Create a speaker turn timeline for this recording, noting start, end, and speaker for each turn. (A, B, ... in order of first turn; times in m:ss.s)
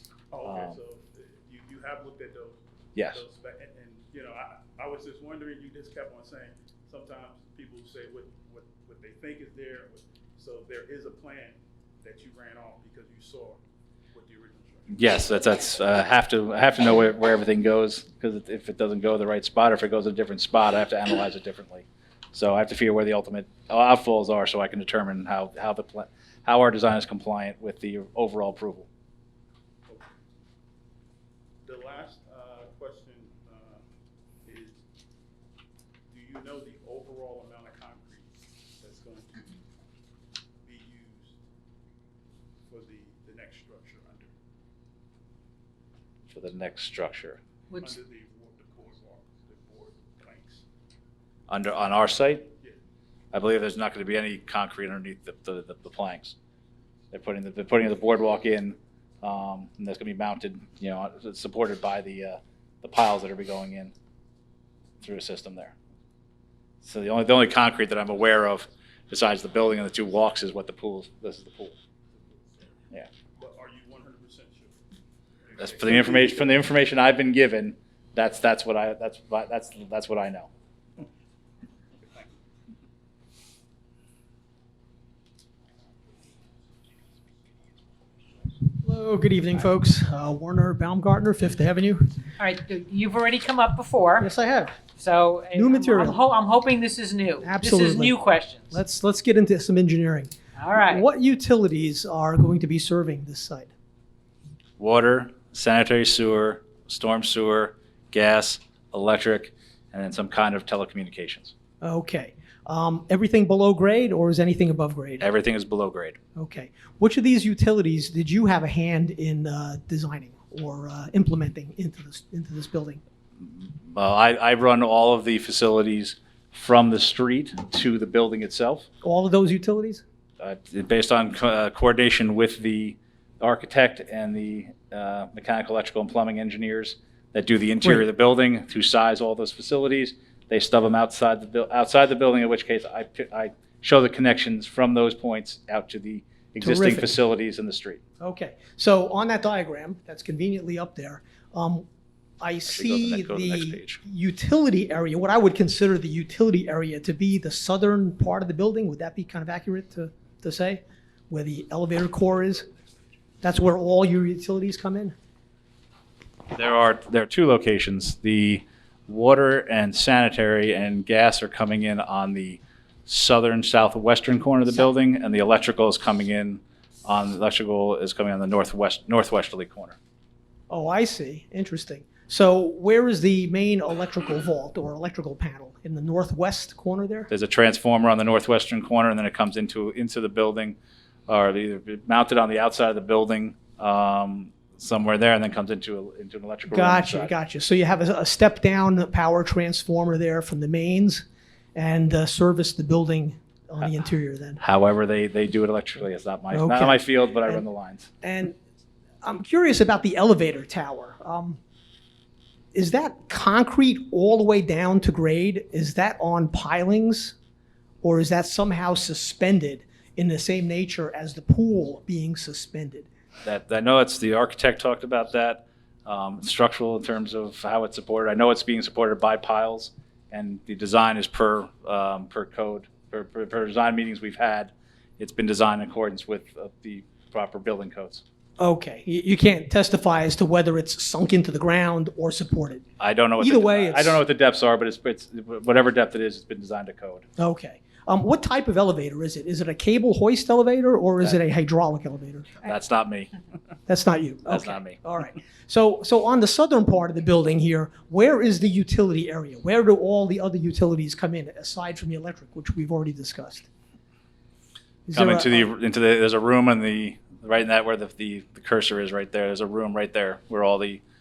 0:00.3-0:13.6 A
0:00.4-0:00.8 B
0:03.0-0:03.2 B
0:14.1-0:15.0 A
0:14.9-0:28.9 B
0:29.9-0:30.1 A
0:31.6-0:33.8 A
0:34.4-0:34.8 A
0:36.1-0:39.5 A
0:40.6-0:41.4 A
0:42.7-0:44.3 A
0:46.3-0:47.4 B
0:47.7-0:48.0 C
0:47.8-0:50.6 A
0:51.5-0:52.5 B
0:53.3-0:56.4 B
0:57.1-1:03.9 B
1:05.0-1:05.7 B
1:06.8-1:11.8 B
1:12.1-1:12.7 A
1:13.4-1:14.8 A
1:15.4-1:16.4 A
1:15.6-1:20.5 B
1:22.0-1:22.3 A
1:28.7-1:32.2 D
1:32.4-1:34.3 C
1:34.2-1:34.8 D
1:34.9-1:38.8 C
1:35.5-1:36.2 D
1:37.4-1:38.2 D
1:38.7-1:43.7 D
1:40.6-1:41.0 C
1:44.8-1:51.5 B
1:51.8-1:55.2 D
1:55.2-1:56.2 B
1:56.4-2:03.0 D
2:03.4-2:08.9 B
2:09.0-2:10.0 D
2:10.4-2:28.0 B
2:26.6-2:27.2 D
2:28.2-2:31.8 D
2:32.4-2:42.7 D
2:32.7-2:34.0 B
2:43.4-2:45.1 D
2:46.5-3:00.0 B
3:00.7-3:07.3 D
3:07.3-3:10.8 B
3:11.3-3:17.3 B
3:16.7-3:24.6 D
3:24.6-3:28.1 B
3:26.5-3:27.6 D
3:28.2-3:28.6 D
3:29.2-3:31.6 D
3:32.7-3:37.3 D
3:38.0-3:43.1 D
3:43.4-3:58.2 B
3:58.6-4:02.9 D
4:03.0-4:07.2 B
4:03.4-4:04.2 D
4:07.4-4:12.6 D
4:12.6-4:13.3 B
4:13.9-4:23.7 D
4:14.5-4:15.0 B
4:25.1-4:25.6 D
4:25.1-4:31.0 B